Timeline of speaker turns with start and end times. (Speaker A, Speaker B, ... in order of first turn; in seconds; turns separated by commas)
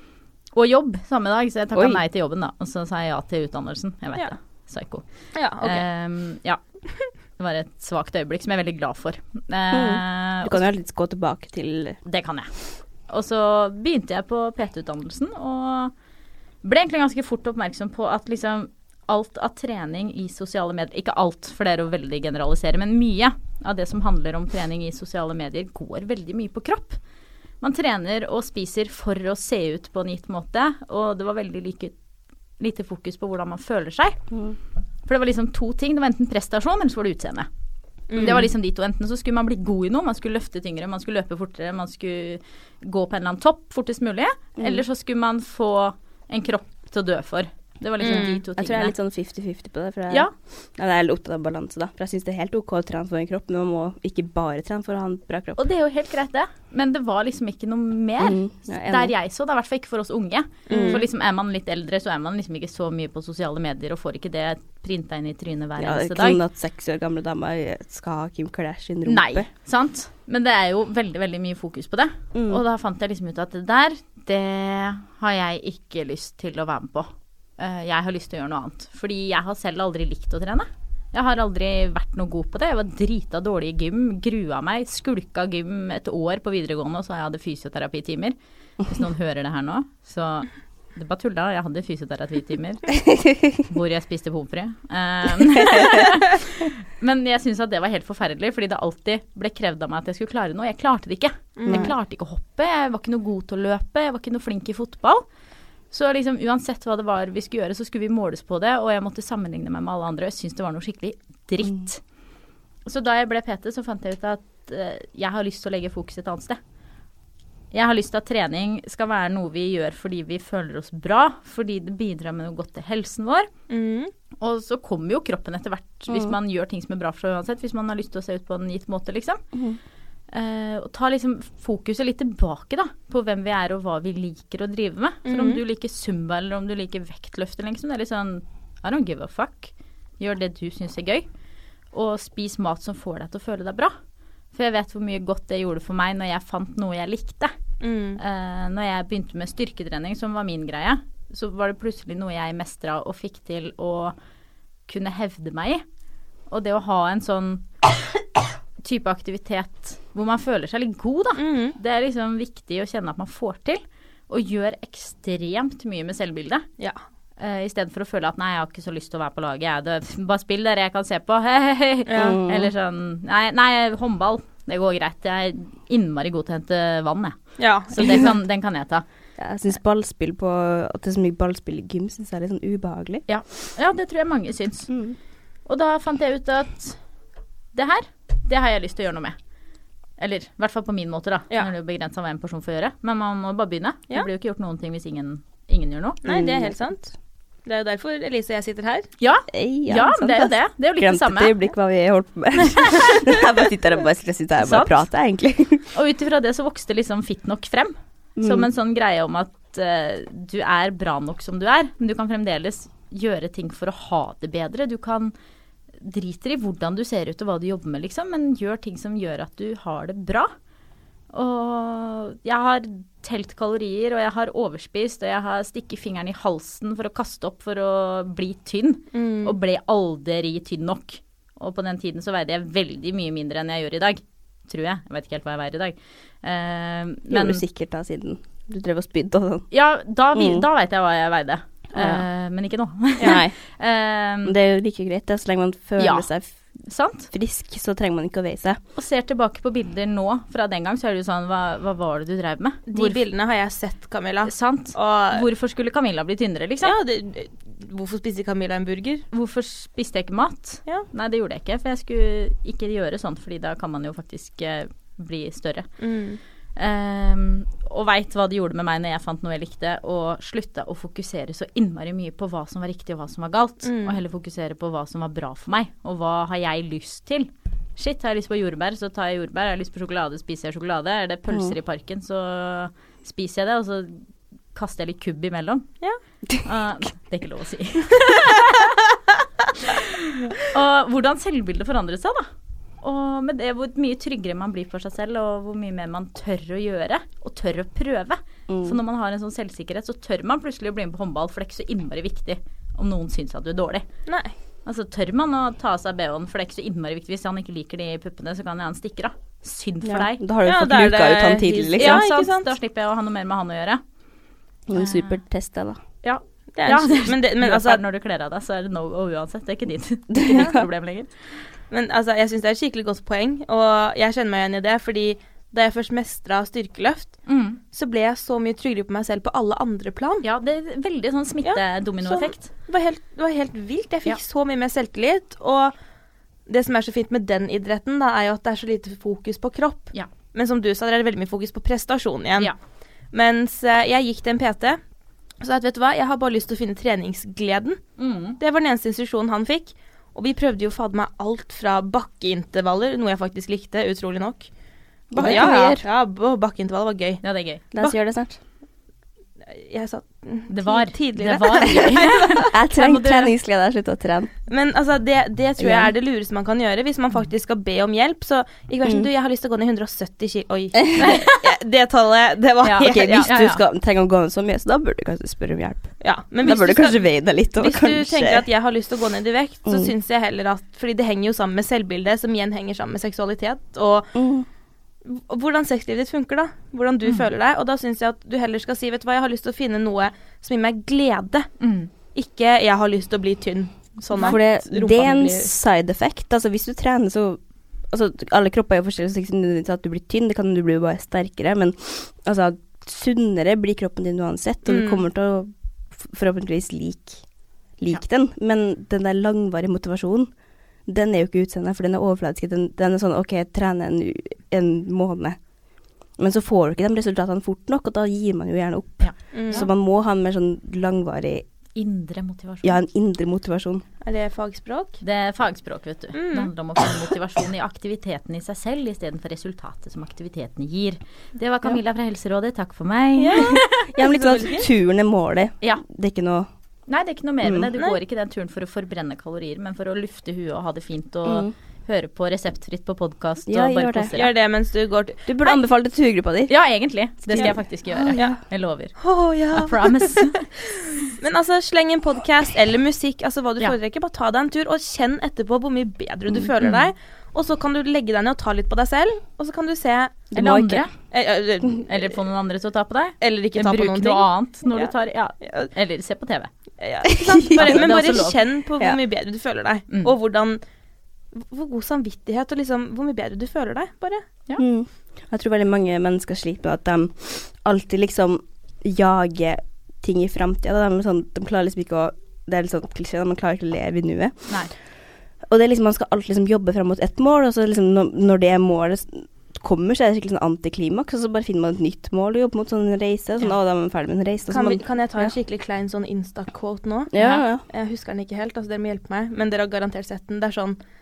Speaker A: 0.5-5.0, Speaker B: 1.7-2.0, Speaker C: 5.3-5.8, Speaker A: 5.6-6.6, Speaker A: 7.4-10.6, Speaker B: 9.7-12.0, Speaker A: 12.0-12.5, Speaker A: 13.1-15.9, Speaker A: 16.6-27.0, Speaker A: 27.6-31.9, Speaker A: 32.6-34.2, Speaker A: 35.0-37.5, Speaker C: 38.1-38.5, Speaker A: 38.1-48.9, Speaker B: 44.6-44.8, Speaker C: 48.0-48.4, Speaker B: 48.0-55.6, Speaker A: 55.6-66.4, Speaker B: 58.2-59.1, Speaker C: 60.7-61.0, Speaker B: 60.7-61.0, Speaker B: 65.8-69.5, Speaker A: 69.0-93.0, Speaker B: 72.3-72.6, Speaker A: 93.5-105.2, Speaker B: 95.7-96.0, Speaker C: 101.6-101.9, Speaker B: 101.7-101.9, Speaker A: 105.9-112.0, Speaker A: 112.8-116.6, Speaker A: 117.7-123.5, Speaker C: 123.7-124.1, Speaker A: 124.4-129.4, Speaker B: 126.1-126.3, Speaker A: 130.3-141.2, Speaker C: 135.2-135.6, Speaker A: 141.9-143.9, Speaker A: 144.5-147.5, Speaker C: 147.8-148.2, Speaker A: 148.2-154.2, Speaker A: 154.9-155.8, Speaker A: 156.5-157.7, Speaker A: 158.8-166.7, Speaker C: 161.4-161.8, Speaker A: 167.4-179.0, Speaker C: 172.1-172.4, Speaker B: 172.1-172.7, Speaker C: 177.6-178.3, Speaker B: 179.4-183.2, Speaker A: 183.3-184.9, Speaker B: 184.9-185.2, Speaker A: 185.7-187.0, Speaker A: 187.7-189.3, Speaker A: 190.2-196.2, Speaker C: 196.2-197.0, Speaker B: 196.2-196.8, Speaker C: 197.7-199.1, Speaker A: 199.2-201.5, Speaker B: 199.5-205.8, Speaker A: 202.8-203.3, Speaker A: 204.6-205.0, Speaker A: 205.9-215.3, Speaker B: 208.4-208.7, Speaker A: 216.0-220.5, Speaker A: 221.3-237.6, Speaker C: 229.1-229.6, Speaker B: 237.3-239.7, Speaker A: 239.7-244.5, Speaker B: 240.3-240.7, Speaker B: 241.9-242.2, Speaker B: 243.2-243.5, Speaker B: 244.4-246.6, Speaker A: 246.0-246.3, Speaker A: 246.8-247.3, Speaker B: 247.3-248.8, Speaker A: 248.9-253.2, Speaker C: 252.9-255.4, Speaker A: 254.4-256.9, Speaker C: 256.8-259.2, Speaker A: 259.3-265.9, Speaker C: 266.0-266.4, Speaker A: 266.8-284.2, Speaker C: 273.8-274.2, Speaker B: 281.5-281.7, Speaker A: 284.7-285.9, Speaker A: 286.6-289.0, Speaker A: 289.8-292.5, Speaker A: 293.0-304.1, Speaker B: 298.7-299.0, Speaker C: 304.3-304.5, Speaker A: 304.8-310.4, Speaker B: 310.0-312.2, Speaker C: 310.6-312.7, Speaker A: 312.0-314.0, Speaker B: 314.9-316.0, Speaker A: 314.9-315.4, Speaker A: 316.2-321.3, Speaker C: 316.8-318.0, Speaker B: 320.3-320.9, Speaker C: 321.9-330.4, Speaker A: 327.5-327.8, Speaker A: 330.4-332.7, Speaker C: 331.6-335.9, Speaker C: 336.7-342.7, Speaker C: 343.3-345.0, Speaker C: 345.6-348.0, Speaker A: 348.2-348.6, Speaker C: 348.6-354.7, Speaker B: 355.3-356.0, Speaker C: 355.3-357.4, Speaker A: 355.4-355.9, Speaker A: 357.4-358.1, Speaker B: 357.9-358.6, Speaker C: 359.7-362.7, Speaker A: 360.7-363.5, Speaker B: 362.6-364.5, Speaker C: 364.7-373.5, Speaker B: 365.8-366.1, Speaker B: 371.1-371.3, Speaker A: 371.2-371.6, Speaker A: 372.8-373.8, Speaker B: 373.0-378.6, Speaker C: 376.2-377.2, Speaker C: 377.8-384.3, Speaker B: 379.9-380.1, Speaker B: 384.3-384.6, Speaker C: 385.2-391.7, Speaker A: 391.8-392.1, Speaker C: 392.3-395.7, Speaker B: 394.4-407.4, Speaker C: 404.9-405.2, Speaker B: 408.0-410.5, Speaker B: 411.1-415.6, Speaker B: 416.4-421.6, Speaker A: 419.2-419.9, Speaker C: 419.5-419.9, Speaker A: 421.9-423.0, Speaker B: 422.8-424.0, Speaker C: 424.2-425.2, Speaker A: 425.2-434.1, Speaker C: 426.3-426.7, Speaker C: 433.4-434.9, Speaker B: 433.6-436.7, Speaker A: 437.1-444.5, Speaker B: 437.6-437.9, Speaker B: 441.4-441.7, Speaker B: 443.7-444.3, Speaker C: 444.3-445.4, Speaker B: 445.5-446.7, Speaker A: 446.7-449.1, Speaker B: 447.4-448.6, Speaker C: 449.2-450.5, Speaker A: 449.7-450.7, Speaker C: 451.2-460.4, Speaker A: 456.8-457.1, Speaker B: 460.5-461.1, Speaker A: 460.5-461.1, Speaker C: 461.3-462.4, Speaker A: 462.0-466.7, Speaker C: 463.4-465.9, Speaker C: 467.0-470.8, Speaker B: 467.3-468.1, Speaker A: 467.7-468.6, Speaker C: 471.5-474.4, Speaker B: 474.8-484.8, Speaker B: 485.7-495.5, Speaker C: 494.7-501.0, Speaker B: 497.3-497.8